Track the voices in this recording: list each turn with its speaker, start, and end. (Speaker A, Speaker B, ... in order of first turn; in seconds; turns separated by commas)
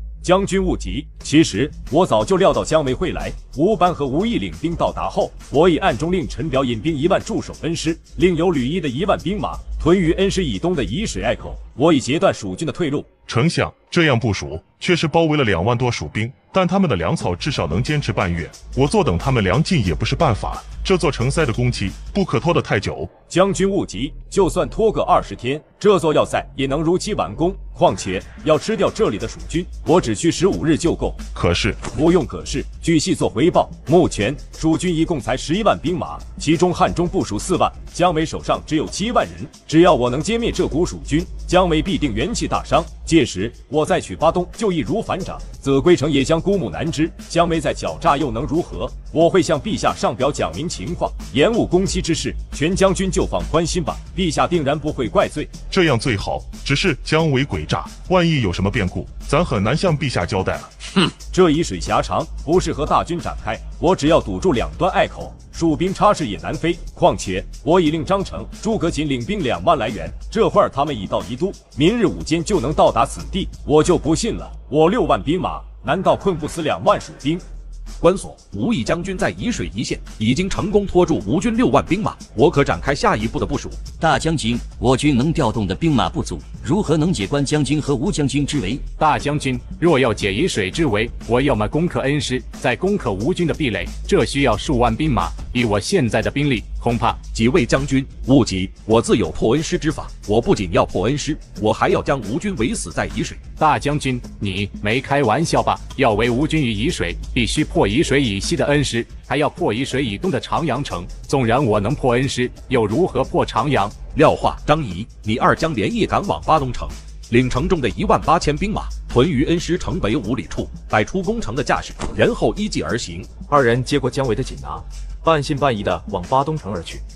Speaker A: 0.2-13.2, Speaker B: 13.2-23.1, Speaker A: 23.2-31.2, Speaker B: 31.3-31.9, Speaker A: 31.9-55.6, Speaker B: 55.7-60.7, Speaker A: 61.3-77.4, Speaker C: 78.0-83.8, Speaker D: 84.0-88.8, Speaker E: 88.9-97.2, Speaker C: 97.3-103.4, Speaker E: 103.6-114.0, Speaker C: 114.1-123.3, Speaker F: 123.5-127.0